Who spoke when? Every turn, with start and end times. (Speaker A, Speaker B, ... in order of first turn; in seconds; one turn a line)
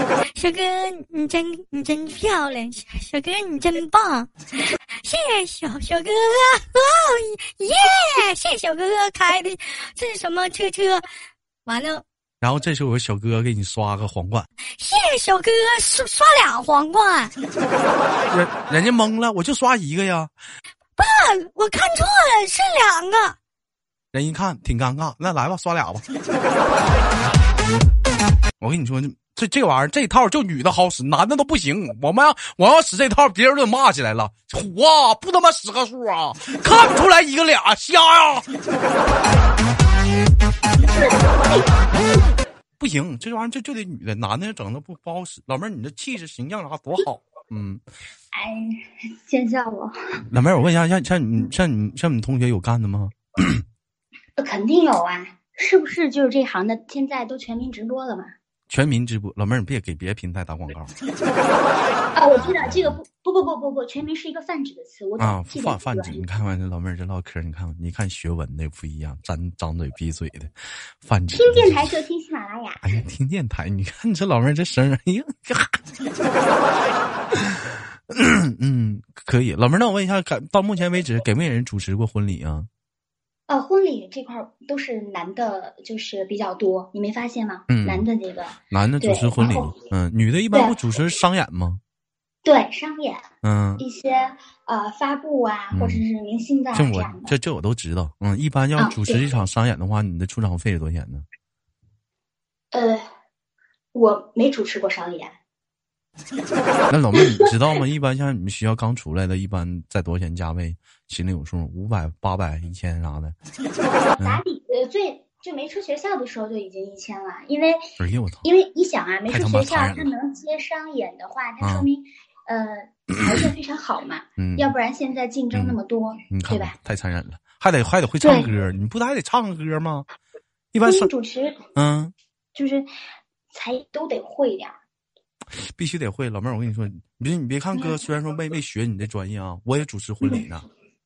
Speaker A: 0.3-11.1
Speaker A: 11.7-12.0
Speaker B: 12.4-14.5
Speaker A: 14.7-17.3
Speaker B: 18.3-20.3
Speaker A: 21.0-23.4
Speaker B: 24.1-26.0
Speaker B: 28.6-38.5
Speaker C: 40.9-41.7
Speaker B: 42.8-47.8
Speaker C: 48.3-50.2
Speaker B: 50.3-53.6
Speaker C: 54.4-58.3
Speaker B: 58.7-60.9
Speaker C: 62.1-66.2
Speaker B: 62.4-62.9
Speaker B: 65.2-71.9
Speaker C: 71.3-73.0
Speaker B: 72.8-75.8
Speaker B: 77.3-82.7
Speaker C: 83.5-89.8
Speaker B: 87.7-88.1
Speaker B: 88.7-91.8
Speaker C: 92.4-93.3
Speaker B: 93.4-93.8
Speaker C: 93.8-97.4
Speaker B: 95.7-96.0
Speaker B: 96.7-101.2
Speaker C: 98.8-99.2
Speaker C: 102.7-103.1
Speaker C: 103.9-105.4
Speaker B: 106.9-113.3
Speaker C: 113.8-117.8
Speaker B: 118.0-118.5
Speaker C: 118.4-126.8
Speaker B: 119.3-120.1
Speaker B: 121.6-121.9
Speaker B: 123.1-123.4
Speaker B: 124.4-124.7
Speaker B: 125.5-125.8
Speaker B: 126.3-130.1
Speaker C: 128.2-128.5
Speaker B: 130.7-131.1
Speaker C: 130.8-131.6
Speaker B: 131.8-132.1
Speaker C: 132.5-132.9
Speaker C: 133.5-134.8
Speaker B: 135.5-140.7